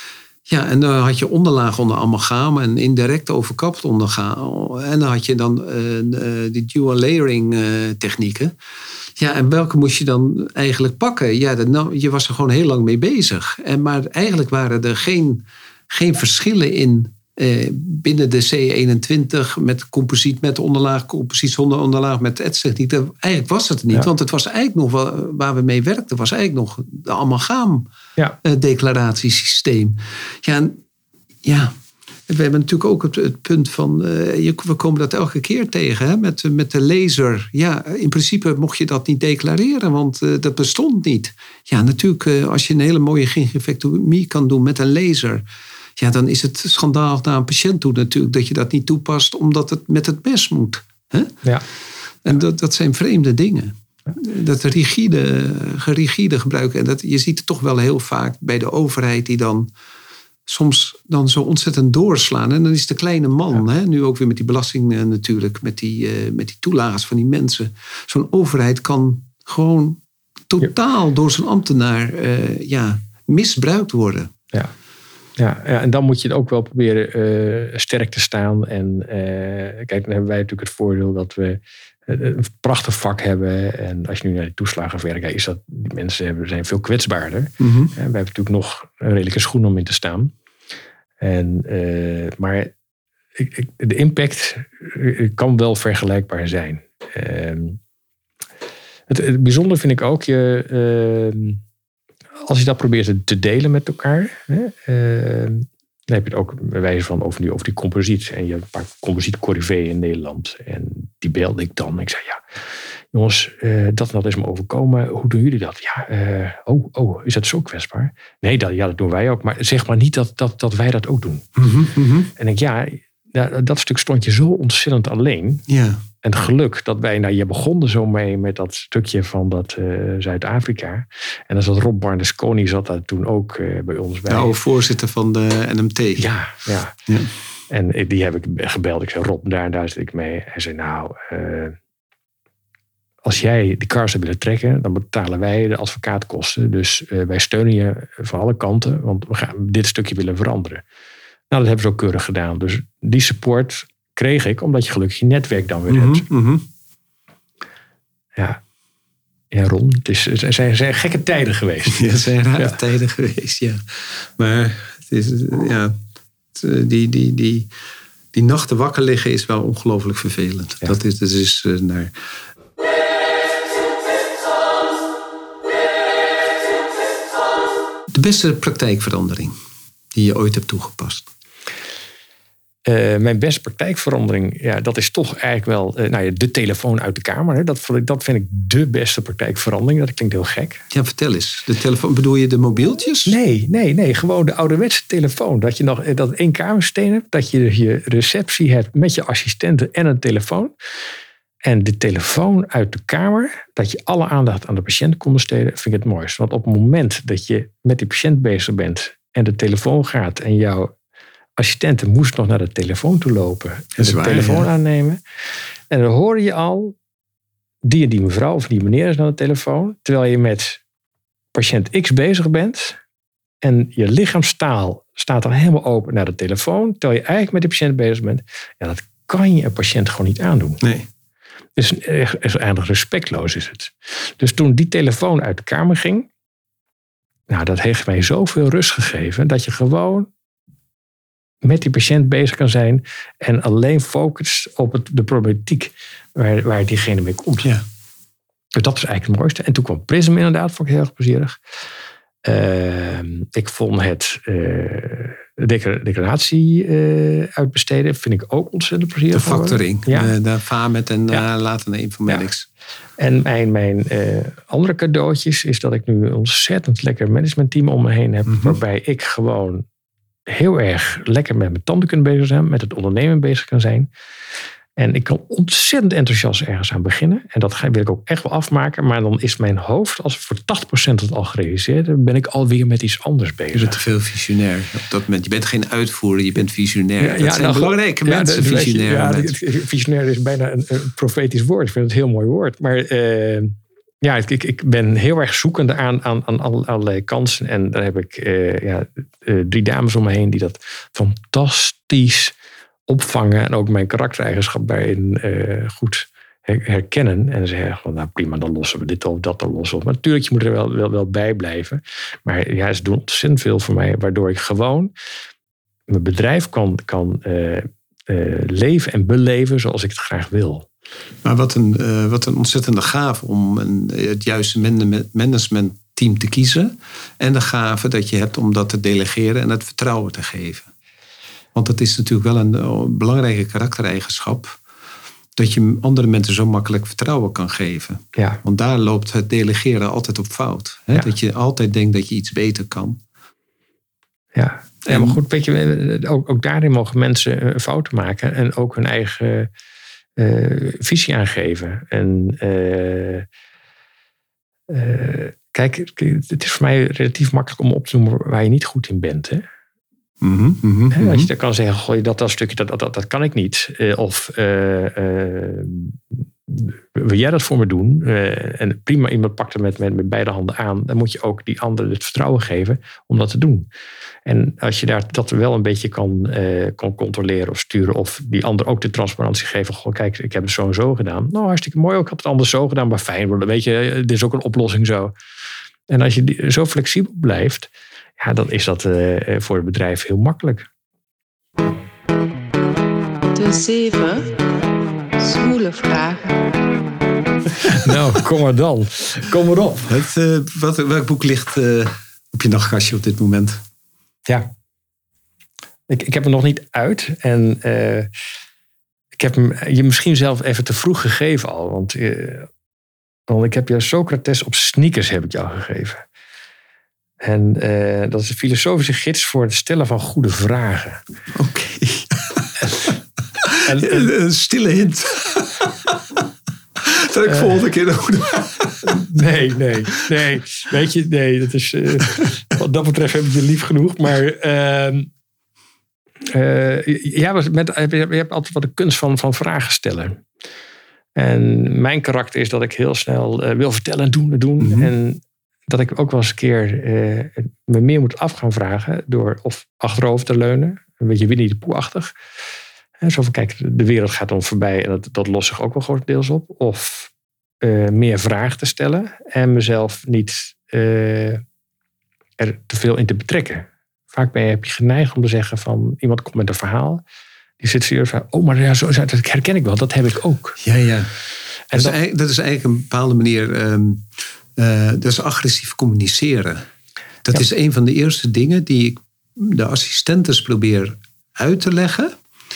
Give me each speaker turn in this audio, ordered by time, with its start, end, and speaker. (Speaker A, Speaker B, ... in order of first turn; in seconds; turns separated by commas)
Speaker A: 0.5-8.5, Speaker A: 9.2-27.9, Speaker A: 28.4-30.8, Speaker A: 31.4-31.7, Speaker A: 32.3-45.4, Speaker A: 46.0-51.3, Speaker A: 52.2-59.7, Speaker A: 60.5-74.3, Speaker B: 75.4-90.3, Speaker A: 87.6-88.0, Speaker B: 91.2-92.7, Speaker B: 93.4-97.8, Speaker B: 99.1-101.6, Speaker B: 102.5-112.6, Speaker B: 113.1-121.5, Speaker A: 121.6-122.3, Speaker B: 122.4-125.6, Speaker A: 125.7-126.0, Speaker B: 126.2-134.5, Speaker A: 134.3-136.3, Speaker B: 136.2-136.9, Speaker B: 137.7-141.8, Speaker B: 143.2-150.8, Speaker B: 151.5-156.3, Speaker A: 155.9-156.7, Speaker B: 158.4-158.6, Speaker B: 159.5-162.8, Speaker A: 161.9-165.9, Speaker A: 166.6-167.7, Speaker A: 168.3-172.1, Speaker A: 178.1-179.5, Speaker A: 180.1-181.3, Speaker B: 182.9-190.8, Speaker A: 190.9-193.4, Speaker B: 193.2-200.7, Speaker B: 201.6-210.9, Speaker B: 211.6-215.2, Speaker A: 214.0-214.7, Speaker B: 215.9-216.9, Speaker B: 217.8-220.8, Speaker B: 221.5-223.0, Speaker B: 223.6-230.8, Speaker A: 230.8-231.1, Speaker B: 231.8-236.3, Speaker B: 237.5-240.3, Speaker B: 241.6-247.7, Speaker B: 248.8-251.6, Speaker B: 252.4-260.3, Speaker A: 259.3-262.7, Speaker B: 263.2-269.8, Speaker A: 268.5-268.8, Speaker B: 270.5-274.1, Speaker B: 275.0-284.0, Speaker A: 283.7-289.5, Speaker B: 287.2-302.6, Speaker B: 303.1-315.1, Speaker B: 316.1-320.9, Speaker A: 321.4-330.9, Speaker A: 331.8-334.8, Speaker A: 335.6-343.2, Speaker B: 344.5-349.7, Speaker A: 345.1-345.4, Speaker B: 350.4-353.5, Speaker B: 354.9-359.6, Speaker A: 360.4-361.5, Speaker B: 361.1-373.9, Speaker B: 374.4-385.3, Speaker B: 386.1-390.9, Speaker C: 393.6-394.5, Speaker C: 395.4-396.5, Speaker B: 397.9-400.2, Speaker A: 400.1-403.8, Speaker B: 406.1-408.3, Speaker B: 409.4-412.7, Speaker B: 413.5-416.2, Speaker B: 417.4-421.2, Speaker A: 421.5-423.1, Speaker A: 423.6-426.2, Speaker B: 423.8-424.3, Speaker A: 427.0-429.2, Speaker B: 427.5-427.8, Speaker B: 429.0-435.3, Speaker B: 436.5-440.4, Speaker B: 441.4-452.3, Speaker A: 444.8-445.1, Speaker B: 453.2-457.3, Speaker B: 457.8-461.6, Speaker B: 462.6-467.2, Speaker B: 467.8-470.8, Speaker A: 470.8-471.3, Speaker B: 471.9-472.2, Speaker A: 471.9-474.2, Speaker A: 474.8-476.8, Speaker A: 477.4-482.3